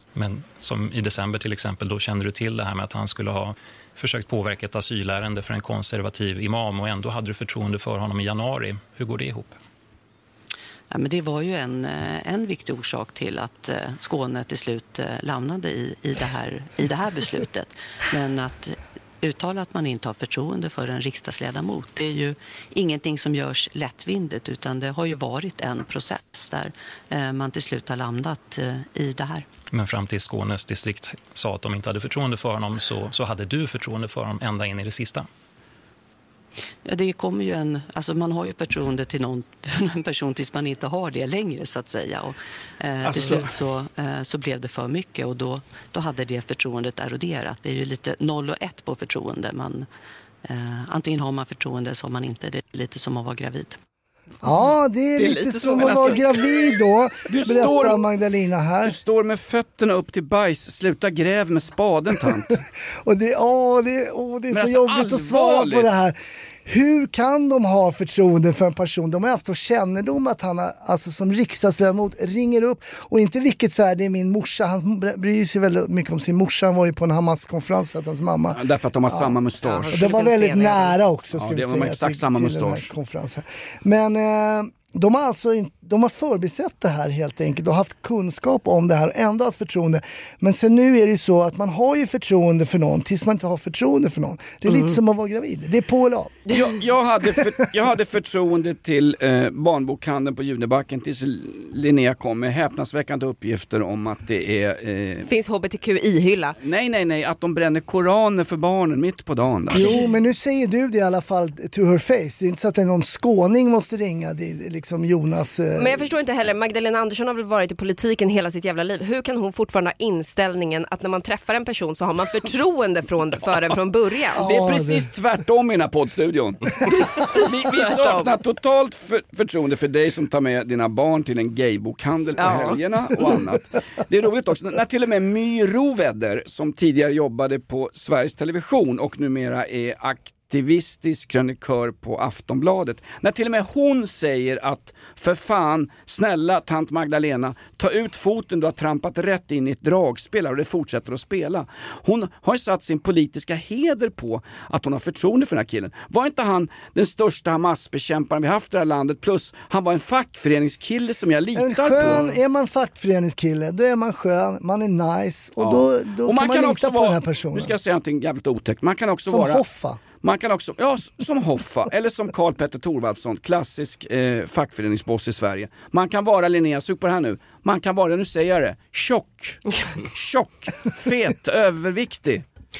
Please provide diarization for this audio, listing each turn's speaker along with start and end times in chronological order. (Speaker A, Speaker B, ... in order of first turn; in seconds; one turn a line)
Speaker A: 0.1-9.6
Speaker B: 10.9-29.5
Speaker A: 29.7-35.3
Speaker B: 36.8-49.9
Speaker C: 43.0-43.5
Speaker B: 50.4-53.8
Speaker D: 54.4-59.0
Speaker E: 55.2-56.2
Speaker C: 55.8-56.2
Speaker C: 57.3-58.0
Speaker C: 58.8-62.6
Speaker D: 63.0-79.3
Speaker C: 64.5-65.9
Speaker C: 78.5-80.0
Speaker E: 79.6-81.0
Speaker D: 79.9-96.4
Speaker C: 81.3-82.9
Speaker E: 94.7-95.0
Speaker C: 96.5-105.3
Speaker E: 105.2-106.5
Speaker C: 106.6-109.9
Speaker D: 109.7-116.0
Speaker E: 109.8-110.0
Speaker E: 115.8-124.4
Speaker D: 124.3-125.1
Speaker C: 124.4-162.2
Speaker E: 126.8-128.3
Speaker E: 132.4-132.8
Speaker D: 161.6-167.7
Speaker C: 165.6-169.6
Speaker D: 169.3-170.0
Speaker C: 170.2-182.4